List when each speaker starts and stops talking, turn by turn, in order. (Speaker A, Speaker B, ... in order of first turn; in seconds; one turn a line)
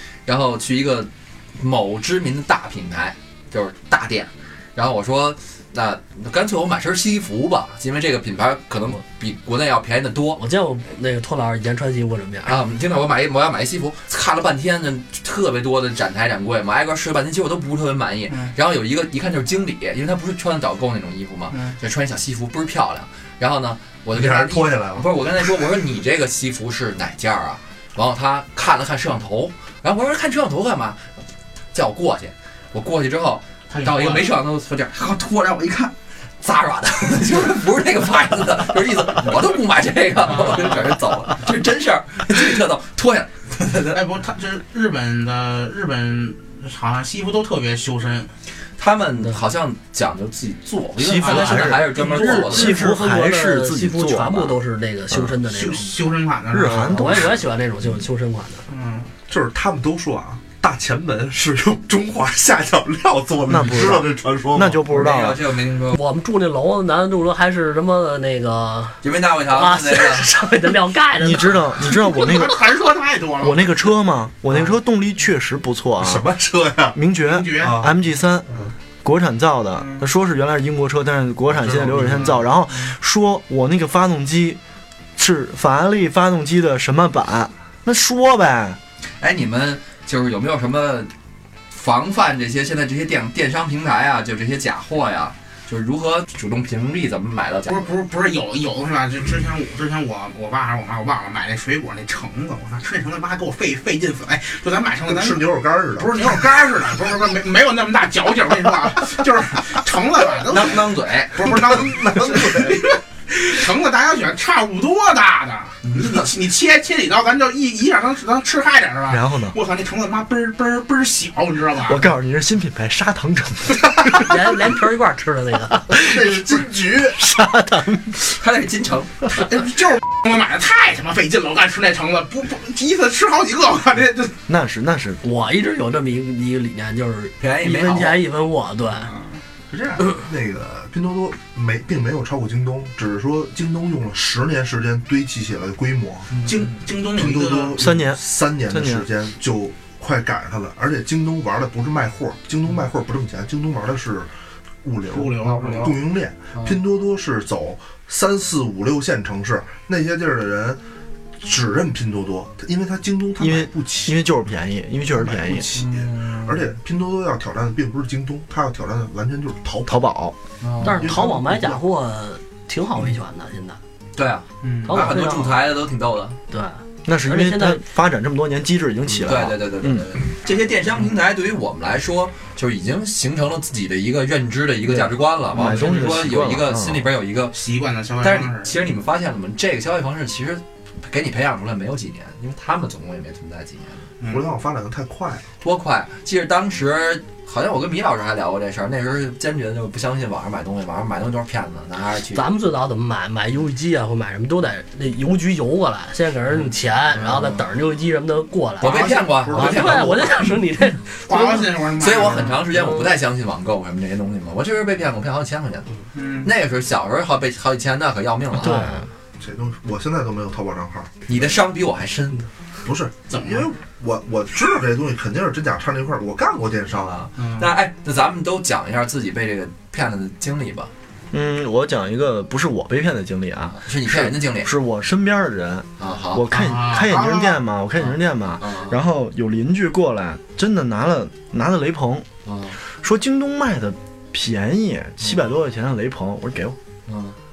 Speaker A: 0.3-10.4
Speaker B: 10.4-12.6
Speaker A: 12.4-31.1
Speaker C: 18.3-18.5
Speaker C: 21.5-21.8
Speaker D: 24.1-25.6
Speaker A: 31.7-35.6
Speaker C: 33.7-34.3
Speaker C: 35.1-35.9
Speaker A: 36.4-44.0
Speaker C: 43.9-48.3
Speaker A: 48.8-52.8
Speaker E: 51.0-54.6
Speaker C: 51.2-51.8
Speaker B: 51.9-55.9
Speaker E: 55.1-55.4
Speaker C: 55.5-57.3
Speaker E: 56.5-57.4
Speaker B: 56.9-58.7
Speaker C: 58.7-59.1
Speaker D: 59.3-64.8
Speaker E: 63.5-65.4
Speaker A: 64.9-66.0
Speaker B: 65.9-72.3
Speaker A: 69.0-70.3
Speaker E: 71.2-72.6
Speaker C: 71.9-73.7
Speaker E: 73.4-76.2
Speaker D: 76.0-77.0
Speaker E: 77.0-78.5
Speaker C: 77.2-77.9
Speaker D: 77.6-77.9
Speaker E: 79.0-84.6
Speaker C: 79.8-80.0
Speaker D: 81.6-82.3
Speaker C: 81.9-82.9
Speaker E: 85.2-88.8
Speaker A: 89.2-91.1
Speaker A: 91.7-97.9
Speaker C: 97.7-122.1
Speaker D: 105.1-106.3
Speaker A: 110.4-111.6
Speaker D: 111.5-113.0
Speaker A: 115.8-116.3
Speaker E: 119.1-119.5
Speaker E: 121.8-124.5
Speaker B: 124.2-125.9
Speaker E: 125.9-126.3
Speaker D: 125.9-127.2
Speaker E: 127.2-128.2
Speaker A: 128.2-129.3
Speaker C: 129.3-134.4
Speaker E: 134.5-135.2
Speaker B: 135.2-139.1
Speaker A: 137.4-138.2
Speaker C: 139.1-139.4
Speaker D: 139.7-146.3
Speaker A: 146.3-146.7
Speaker C: 146.4-148.0
Speaker D: 147.1-154.3
Speaker E: 147.8-149.1
Speaker D: 154.8-160.8
Speaker C: 155.1-156.0
Speaker D: 161.4-164.2
Speaker E: 163.4-165.7
Speaker D: 165.2-170.0
Speaker A: 165.7-166.7
Speaker E: 169.9-170.4
Speaker A: 170.6-171.2
Speaker B: 170.8-173.8
Speaker D: 170.8-171.8
Speaker A: 174.2-176.4
Speaker C: 174.6-175.1
Speaker B: 174.9-175.6
Speaker B: 176.5-177.8
Speaker E: 177.1-180.1
Speaker A: 179.2-187.6
Speaker E: 184.9-187.1
Speaker C: 187.5-188.7
Speaker A: 188.2-194.1
Speaker C: 194.2-194.5
Speaker D: 194.2-195.5
Speaker A: 195.6-202.5
Speaker B: 202.3-211.9
Speaker A: 206.5-207.6
Speaker C: 208.8-209.2
Speaker A: 208.8-210.6
Speaker D: 209.0-210.2
Speaker C: 211.3-212.6
Speaker A: 212.0-215.9
Speaker B: 212.7-213.1
Speaker C: 216.2-216.5
Speaker A: 216.4-218.8
Speaker E: 218.6-219.1
Speaker B: 218.6-219.0
Speaker D: 219.4-221.4
Speaker A: 221.3-222.5
Speaker D: 222.8-227.3
Speaker C: 223.3-223.7
Speaker A: 226.9-230.9
Speaker C: 227.4-227.7
Speaker E: 231.3-242.3
Speaker A: 233.7-234.7
Speaker A: 236.0-236.5
Speaker C: 236.5-237.6
Speaker A: 238.0-239.0
Speaker A: 242.4-242.8
Speaker E: 243.0-246.8
Speaker A: 247.1-247.4